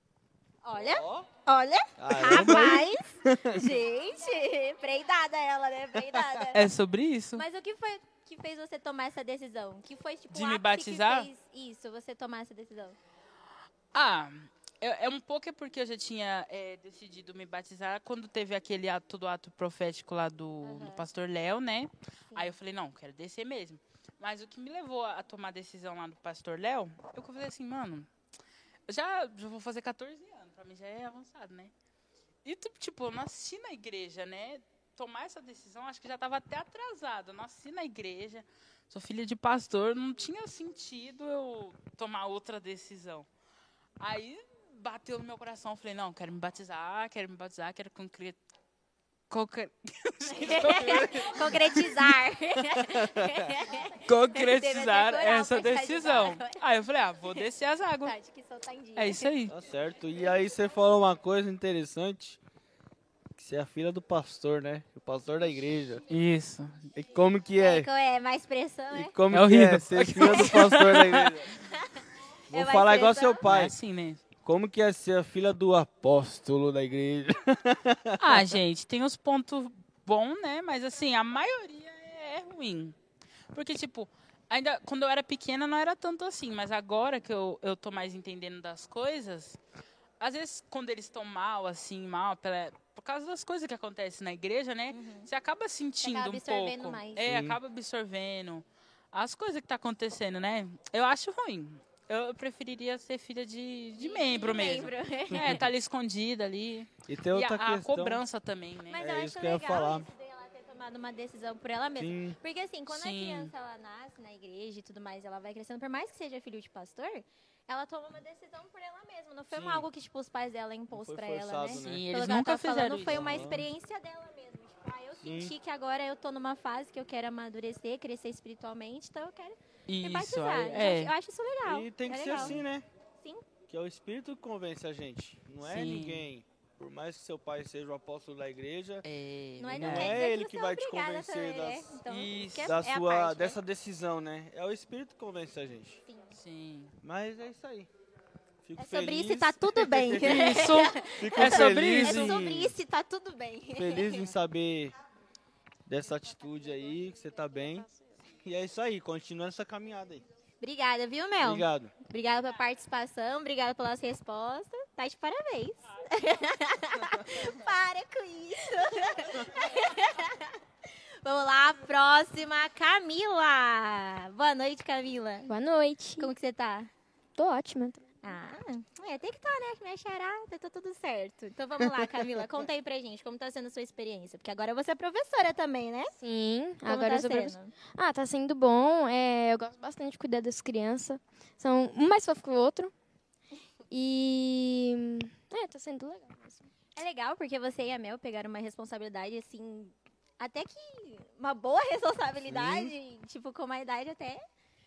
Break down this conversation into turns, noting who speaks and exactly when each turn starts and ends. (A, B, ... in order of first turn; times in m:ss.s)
0:00.6-0:06.7 A
0:00.8-0:01.3 B
0:02.0-0:03.7 B
0:06.5-0:07.4 C
0:07.4-0:13.0 A
0:10.3-0:11.3 C
0:13.9-0:28.1 C
0:20.6-0:21.1 A
0:28.9-0:31.7 C
0:32.4-0:43.3 C
0:44.0-0:48.4 C
0:49.3-0:52.0 C
0:50.3-0:56.6 A
0:54.0-0:58.2 C
0:58.0-0:59.3 A
0:59.0-0:59.6 C
0:59.5-1:02.4 B
1:03.4-1:06.0 B
1:06.1-1:06.9 C
1:06.9-1:07.9 B
1:07.6-1:09.2 A
1:08.9-1:11.5 B
1:09.3-1:11.4 C
1:12.5-1:13.4 A
1:12.5-1:13.7 B
1:13.4-1:14.2 C
1:14.4-1:18.4 B
1:18.2-1:23.0 C
1:23.5-1:29.6 C
1:30.2-1:49.0 C
1:34.9-1:35.3 A
1:36.0-1:37.3 A
1:37.2-1:37.6 B
1:44.0-1:45.6 A
1:47.1-1:48.2 B
1:48.9-2:12.6 A
1:48.9-1:50.1 B
1:52.0-1:52.4 B
1:52.9-1:53.5 C
1:59.5-1:59.9 B
2:00.9-2:02.1 B
2:01.8-2:03.5 C
2:03.1-2:03.7 B
2:05.2-2:05.5 B
2:09.9-2:11.1 C
2:11.6-2:12.8 B
2:12.3-2:12.6 C
2:13.2-2:13.5 A
2:13.7-2:19.0 B
2:15.6-2:16.2 C
2:19.0-2:20.2 C
2:19.6-2:23.6 A
2:19.7-2:21.9 B
2:22.0-2:22.8 C
2:22.6-2:26.0 B
2:26.1-2:26.4 A
2:26.3-2:26.9 C
2:27.0-2:27.9 B
2:28.6-2:30.5 B
2:28.8-2:34.3 A
2:30.2-2:32.5 C
2:31.2-2:32.8 B
2:33.8-2:35.0 B
2:35.9-2:37.9 B
2:36.6-2:38.1 D
2:38.4-2:40.2 B
2:40.6-2:55.5 A
2:41.4-2:41.9 B
2:55.5-2:56.3 D
2:56.2-2:56.9 A
2:57.4-2:58.0 D
2:58.2-3:06.1 A
3:01.8-3:02.5 B
3:06.2-3:12.9 D
3:06.8-3:07.8 A
3:13.9-3:16.7 D
3:17.0-3:24.4 A
3:22.4-3:22.9 B